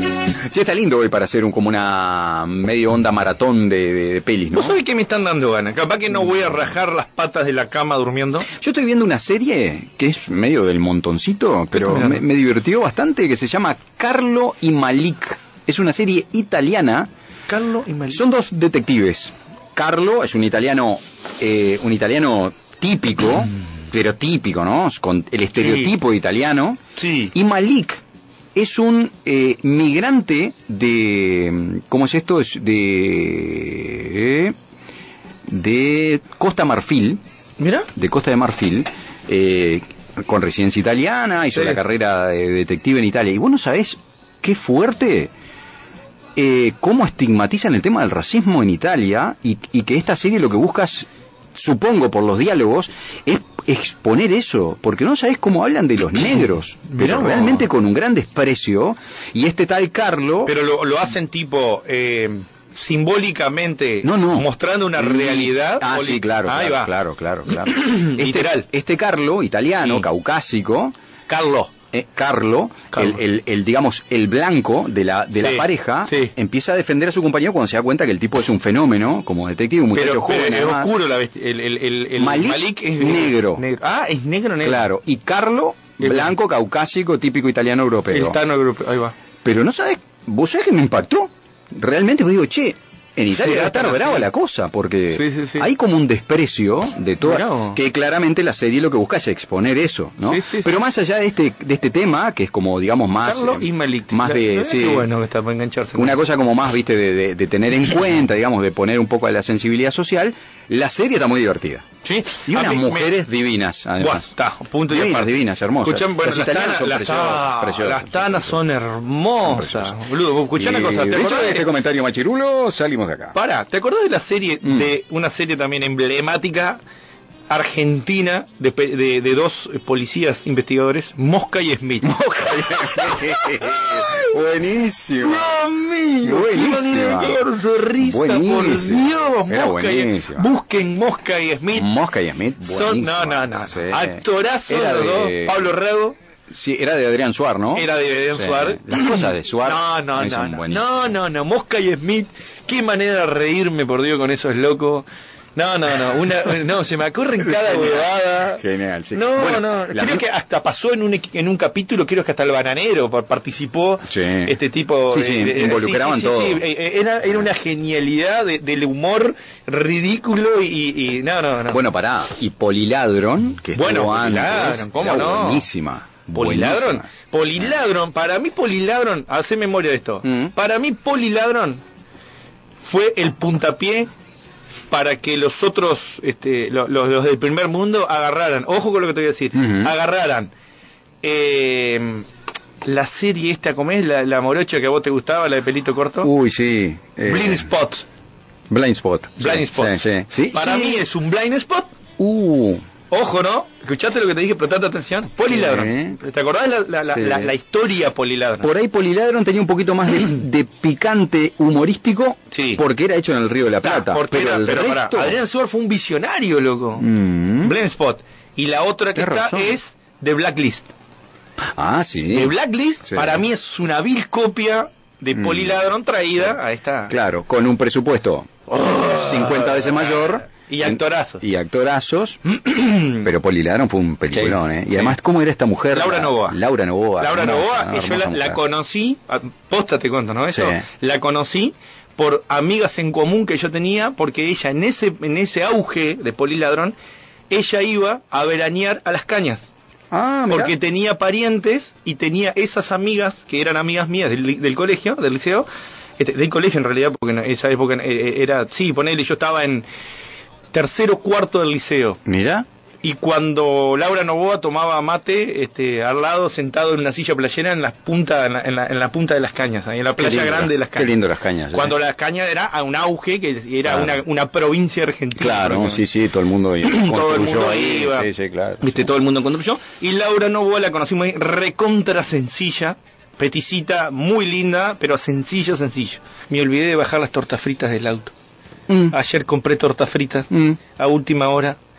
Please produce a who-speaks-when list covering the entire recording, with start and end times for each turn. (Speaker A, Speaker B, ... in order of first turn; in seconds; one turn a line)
Speaker A: 0.3-4.8
Speaker B: 4.5-8.5
Speaker A: 8.5-17.1
Speaker B: 11.7-12.2
Speaker B: 17.5-18.2
Speaker A: 18.1-28.0
Speaker B: 25.6-25.9
Speaker B: 27.0-27.3
Speaker A: 28.5-34.5
Speaker A: 35.5-37.2
Speaker B: 37.6-37.9
Speaker A: 37.9-45.3
Speaker A: 46.4-60.5
Speaker B: 56.9-57.6
Speaker B: 60.5-66.9
Speaker A: 64.0-70.9
Speaker B: 67.5-68.7
Speaker B: 69.8-70.1
Speaker B: 71.3-71.7
Speaker A: 71.9-80.9
Speaker B: 72.9-73.2
Speaker B: 75.4-76.3
Speaker B: 79.9-84.9
Speaker A: 82.2-83.6
Speaker A: 84.6-88.4
Speaker B: 86.0-86.3
Speaker B: 88.1-89.1
Speaker A: 89.4-105.1
Speaker B: 93.3-94.3
Speaker B: 95.1-95.7
Speaker B: 97.2-97.8
Speaker B: 100.2-100.8
Speaker B: 103.2-106.2
Speaker A: 105.9-111.8
Speaker B: 112.0-113.1
Speaker A: 112.5-114.3
Speaker B: 114.0-121.7
Speaker A: 114.9-118.6
Speaker A: 119.4-120.0
Speaker A: 120.5-123.3
Speaker B: 123.3-126.8
Speaker B: 127.5-134.3
Speaker A: 132.0-135.6
Speaker B: 135.2-141.9
Speaker A: 136.2-137.5
Speaker A: 138.0-140.5
Speaker A: 141.7-145.8
Speaker B: 142.6-146.2
Speaker A: 146.5-151.1
Speaker B: 147.7-171.8
Speaker A: 157.4-160.2
Speaker A: 164.1-164.6
Speaker A: 165.1-166.6
Speaker A: 171.7-177.7
Speaker B: 173.7-175.7
Speaker B: 176.3-181.8
Speaker A: 180.2-180.5
Speaker B: 182.8-184.1
Speaker B: 184.9-190.5
Speaker A: 189.5-189.9
Speaker B: 191.2-192.2
Speaker B: 192.8-196.3
Speaker A: 196.2-197.7
Speaker B: 197.2-198.1
Speaker A: 198.7-201.1
Speaker B: 199.4-200.0
Speaker B: 200.5-201.9
Speaker A: 202.2-202.8
Speaker B: 203.1-208.7
Speaker A: 205.5-206.2
Speaker A: 207.0-207.5
Speaker A: 208.6-215.4
Speaker B: 212.5-212.8
Speaker B: 213.8-217.1
Speaker A: 217.0-217.8
Speaker B: 217.6-220.9
Speaker A: 219.1-219.8
Speaker A: 221.8-223.4
Speaker B: 222.3-227.2
Speaker A: 225.3-226.6
Speaker A: 227.1-232.4
Speaker B: 228.7-231.4
Speaker B: 232.5-233.2
Speaker A: 233.1-238.6
Speaker B: 234.3-235.2
Speaker B: 235.9-236.6
Speaker B: 237.2-246.9
Speaker A: 240.5-240.8
Speaker B: 247.5-249.7
Speaker A: 250.1-250.8
Speaker B: 250.5-255.7
Speaker B: 256.2-259.9
Speaker B: 260.7-262.2
Speaker A: 262.2-262.6
Speaker B: 263.0-271.2
Speaker A: 270.2-271.9
Speaker B: 271.7-276.0
Speaker A: 273.8-274.2
Speaker A: 275.3-279.1
Speaker B: 276.8-278.3
Speaker B: 278.8-288.3
Speaker A: 288.9-289.1
Speaker B: 289.1-291.8
Speaker A: 290.5-290.8